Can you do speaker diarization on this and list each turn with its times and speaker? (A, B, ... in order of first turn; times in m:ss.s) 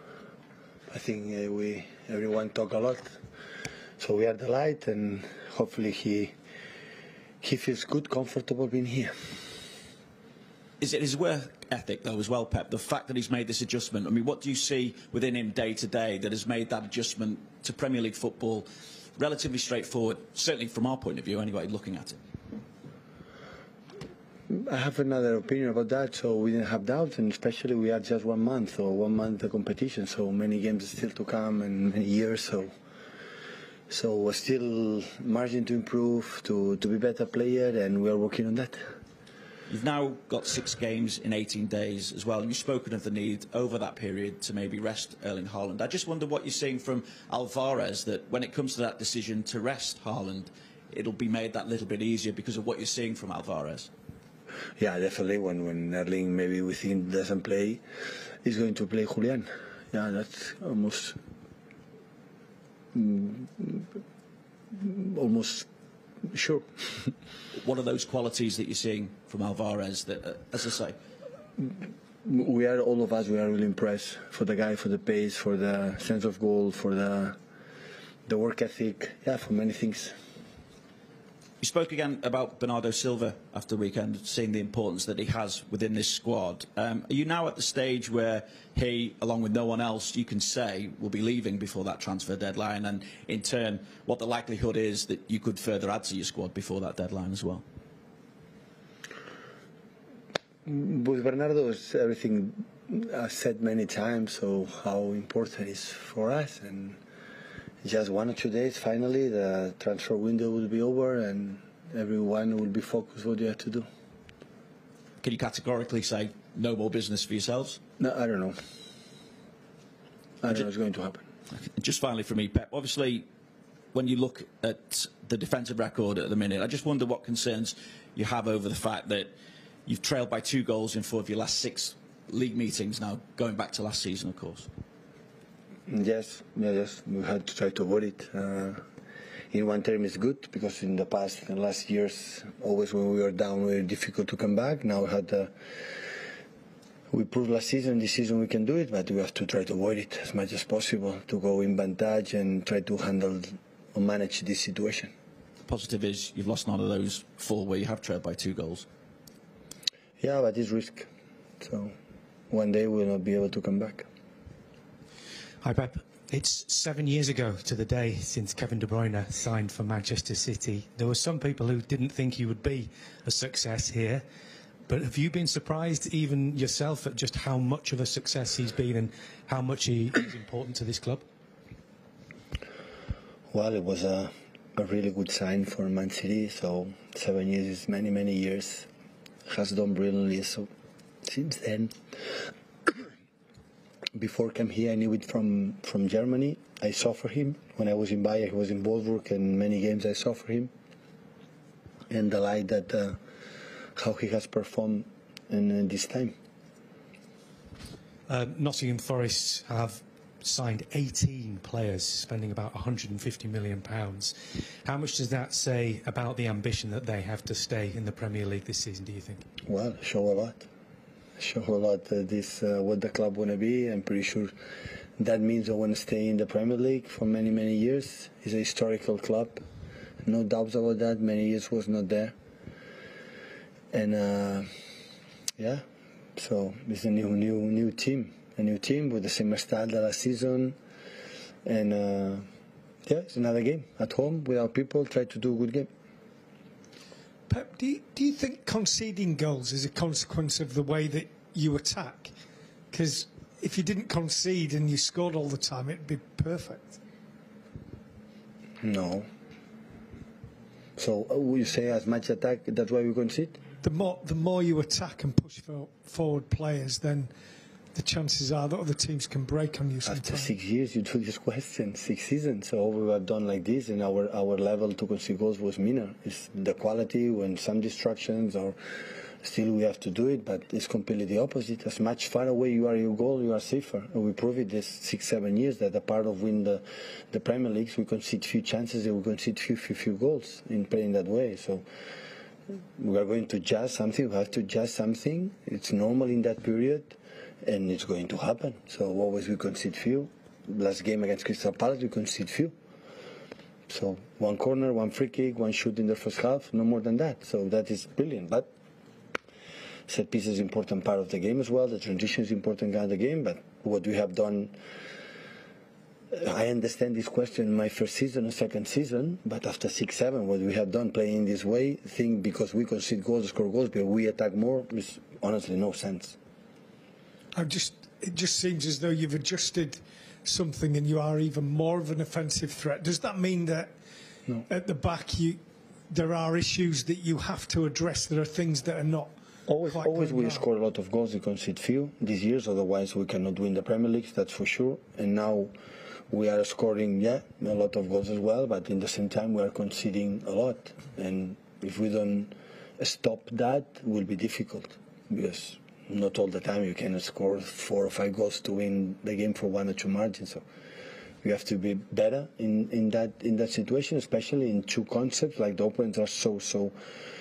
0:00.9-0:03.2 A
0:04.0-0:06.3 A
0:07.4-0:09.1 A
0:10.8-0:22.2 B
0:24.5-0:32.7 A
0:33.9-0:38.8 A
0:39.7-0:53.9 B
0:54.8-0:57.8 A
0:58.4-1:01.2 A
1:02.9-1:03.9 A
1:04.7-1:05.7 A
1:06.3-1:07.1 A
1:07.5-1:11.0 B
1:12.2-1:17.4 A
1:18.3-1:20.1 A
1:21.6-1:37.6 B
1:40.6-1:47.0 A
1:47.8-1:53.8 A
1:55.2-1:57.8 B
1:58.0-1:58.6 A
2:00.4-2:01.2 A
2:01.5-2:03.3 B
2:03.9-2:09.3 B
2:09.8-2:14.7 B
2:15.9-2:18.8 A
2:19.5-2:25.5 A
2:27.1-2:35.1 A
2:35.6-2:38.9 B
2:40.2-2:41.1 A
2:41.6-2:41.9 A
2:42.5-2:44.1 A
2:45.6-2:54.2 C
2:54.9-3:01.2 C
3:03.5-3:08.9 A
3:09.5-3:10.7 A
3:11.2-3:11.9 A
3:14.1-3:20.7 A
3:22.1-3:23.2 A
3:24.0-3:26.3 A
3:28.3-3:39.4 C
3:39.6-3:40.7 A
3:41.4-3:44.5 A
3:45.2-3:49.6 A
3:50.2-3:52.3 A
3:53.9-3:54.7 A
3:55.6-3:55.8 A
3:56.4-4:00.8 A
4:01.6-4:02.4 A
4:03.0-4:05.9 A
4:07.5-4:12.3 D
4:12.9-4:17.0 D
4:18.8-4:19.2 A
4:21.0-4:23.6 A
4:23.8-4:27.3 D
4:27.9-4:30.5 D
4:30.0-4:38.8 A
4:39.4-4:51.8 A
4:53.0-5:02.7 A
5:03.9-5:08.7 A
5:10.1-5:14.7 A
5:16.3-5:26.4 A
5:27.5-5:33.9 D
5:34.6-5:40.6 D
5:39.7-5:45.7 A
5:46.3-6:00.6 A
6:01.4-6:06.9 A